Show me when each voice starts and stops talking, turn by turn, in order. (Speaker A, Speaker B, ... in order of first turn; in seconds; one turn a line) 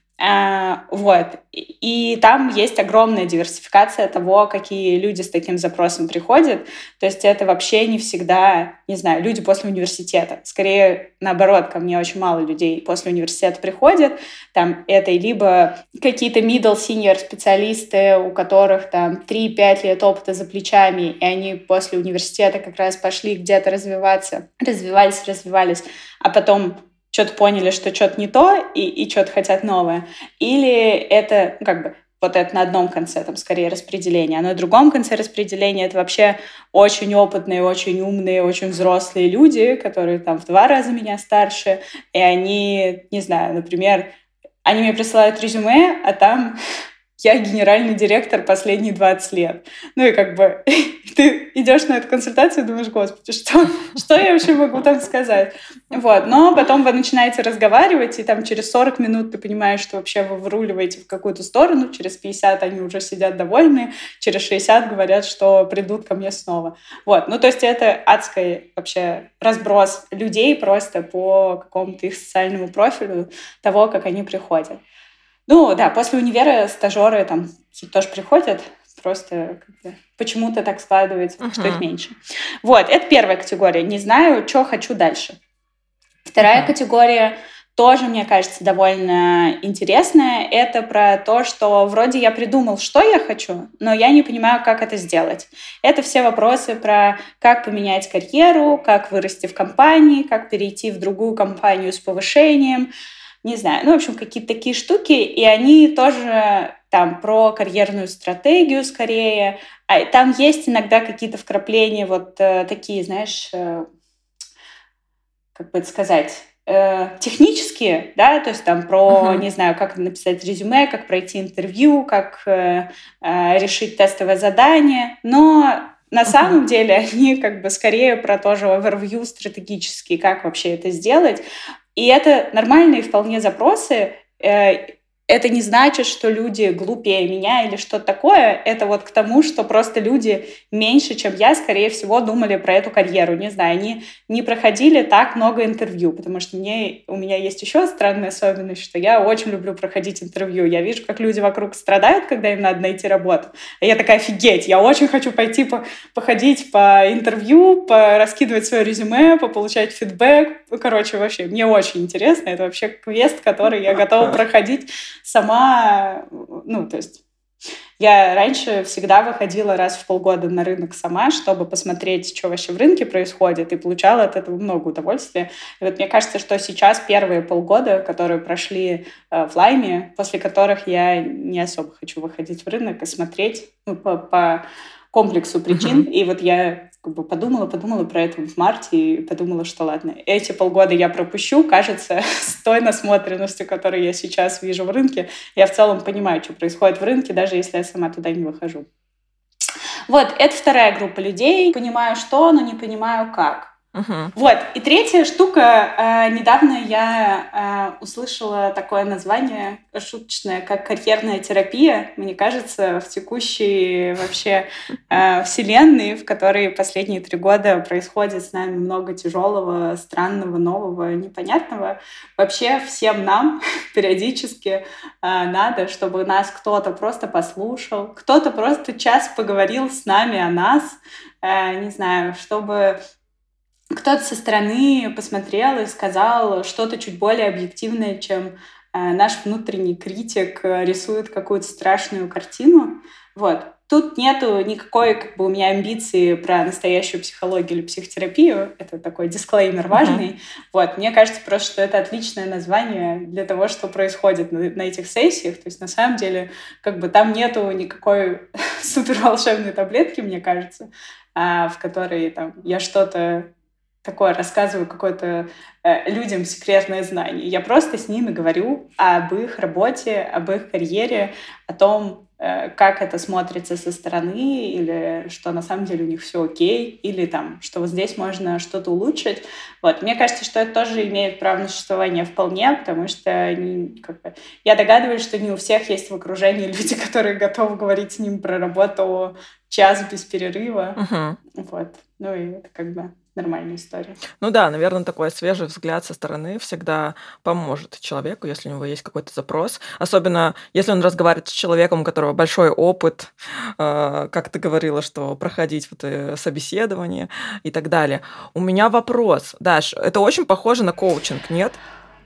Speaker A: 0.2-44.1
Speaker A: 44.6-46.5
Speaker A: 47.2-74.8
Speaker A: 75.5-85.4
Speaker B: 81.4-81.8
Speaker A: 86.3-102.9
Speaker B: 86.4-86.7
Speaker A: 103.4-113.8
Speaker A: 115.5-131.4
Speaker B: 119.1-119.4
Speaker A: 131.9-167.2
Speaker A: 168.0-198.9
Speaker B: 185.7-186.1
Speaker A: 200.1-203.7
Speaker B: 203.9-204.3
Speaker A: 204.3-233.0
Speaker A: 233.9-263.5
Speaker B: 249.9-250.2
Speaker A: 264.0-291.0
Speaker B: 291.0-291.4
Speaker A: 291.5-294.2
Speaker B: 294.4-311.8